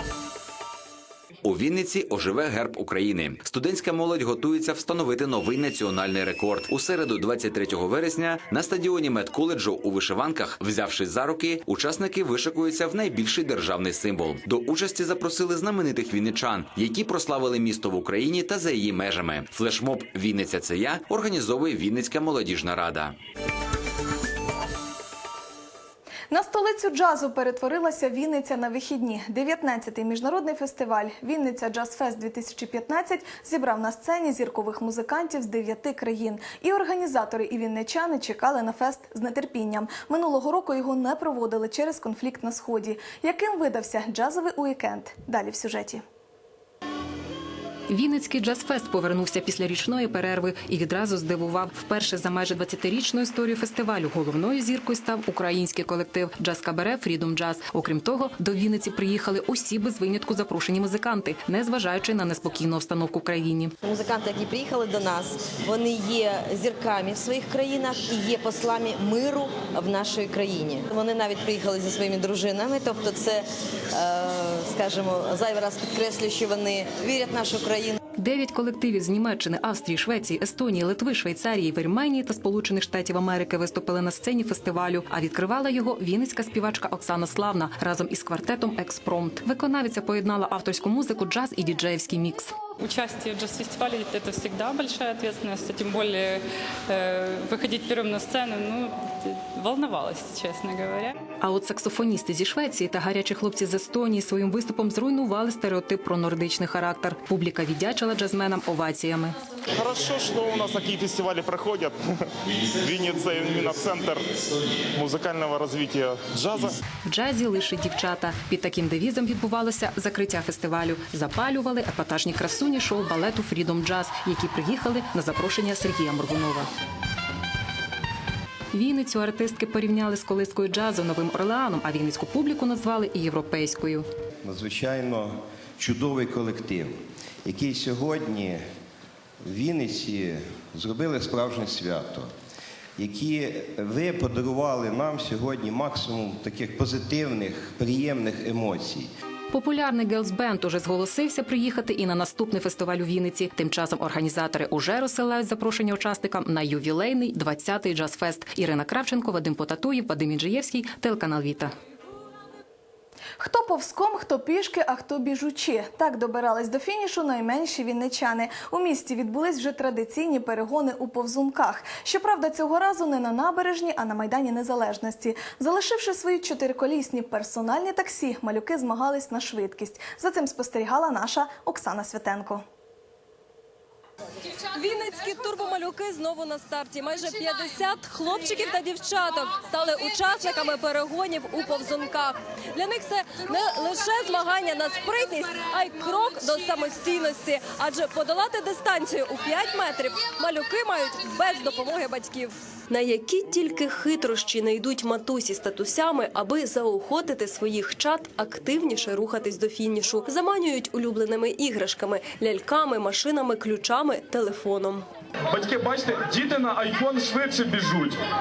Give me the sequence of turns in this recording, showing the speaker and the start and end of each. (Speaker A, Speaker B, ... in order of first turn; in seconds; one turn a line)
Speaker A: 1.4-23.1
Speaker B: 26.3-46.0
Speaker C: 47.9-63.7
Speaker D: 63.8-78.0
Speaker C: 78.2-92.5
Speaker E: 92.8-101.1
Speaker C: 101.4-109.4
Speaker F: 109.8-111.9
Speaker F: 112.8-114.2
Speaker F: 114.9-116.7
Speaker C: 117.0-126.7
Speaker C: 128.7-134.0
Speaker G: 134.4-138.6
Speaker G: 139.4-142.3
Speaker G: 143.0-149.1
Speaker C: 149.5-161.7
Speaker B: 163.4-182.6
Speaker H: 184.7-215.0
Speaker I: 215.5-218.2